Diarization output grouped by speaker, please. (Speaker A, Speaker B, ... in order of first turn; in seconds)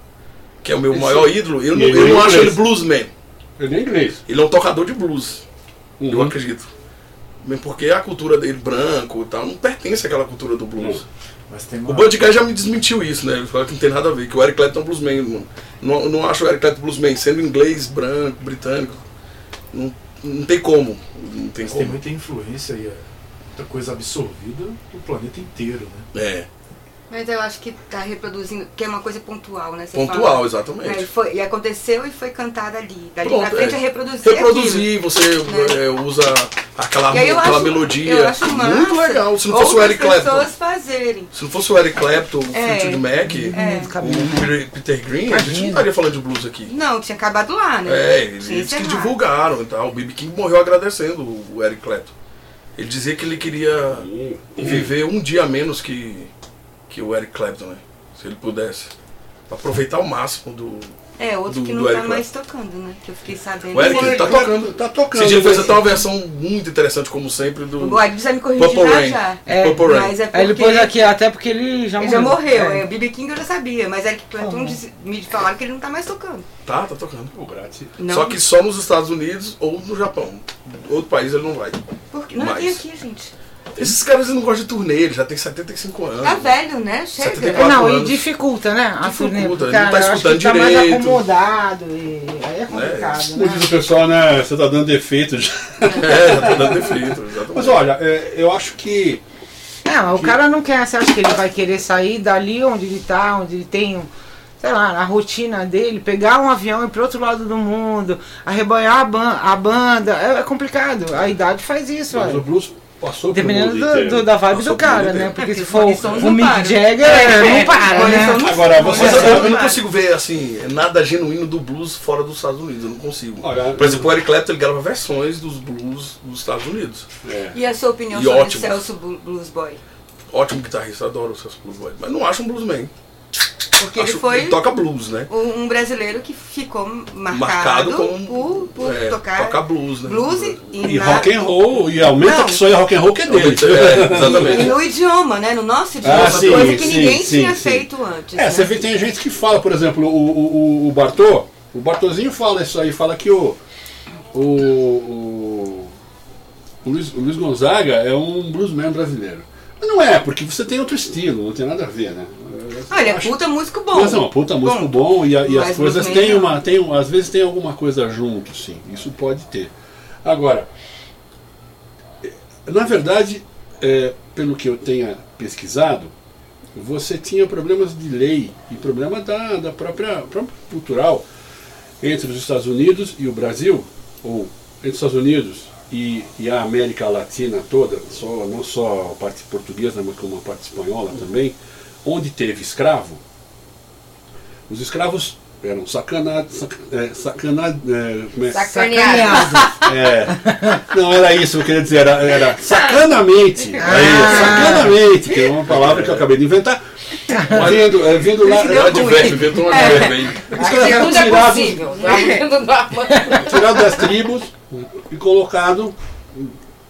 Speaker A: 0.6-3.1, 4.2-5.4, 6.1-6.7, 7.4-11.0, 11.8-19.0, 19.7-22.0, 26.1-26.5, 29.9-31.1, 33.2-40.5, 41.3-46.7, 47.9-52.1, 52.8-56.3, 56.9-58.9, 59.5-60.9, 61.5-62.2, 63.7-70.2, 76.6-77.3, 78.0-81.8, 82.3-82.8, 83.7-86.5, 87.2-88.2, 89.0-91.2, 92.7-93.2, 95.9-97.8, 114.5-115.4, 118.9-127.1, 128.1-128.8, 130.3-132.9, 133.9-135.3, 137.3-140.6, 143.2-144.8, 146.0-147.0, 205.7-206.2, 207.5-210.5
Speaker B: 0.9-2.7, 3.6-4.2, 6.0-6.3, 10.8-11.0, 53.9-54.9, 63.7-65.8, 77.3-78.0, 93.3-99.2, 112.1-114.3, 118.1-119.6, 123.4-124.1, 127.2-127.6, 140.8-144.8, 146.0-153.6, 154.3-155.9, 156.8-169.7, 170.2-170.7, 172.2-176.1, 176.7-181.2, 182.0-193.2, 194.7-198.7, 199.8-212.3, 213.2-216.5
Speaker C: 11.5-12.2, 21.6-26.1
Speaker D: 27.1-35.8, 37.1-41.3, 42.5-43.9, 46.7-49.1, 61.2-64.5, 67.8-71.0, 72.0-76.4, 78.0-78.4, 82.1-83.3, 86.2-87.7, 115.3-119.8, 127.5-129.8, 133.8-134.6, 135.3-141.3, 142.0-142.7, 143.9-148.7, 162.9-166.6, 208.4-210.3, 212.0-212.4
Speaker E: 43.2-44.5, 45.3-45.9, 69.5-72.9, 74.4-74.8, 87.5-93.7, 99.8-104.1, 104.6-112.4, 113.3-119.0, 198.6-199.8, 200.4-200.7, 203.8-205.0
Speaker F: 198.5-199.7, 210.5-213.9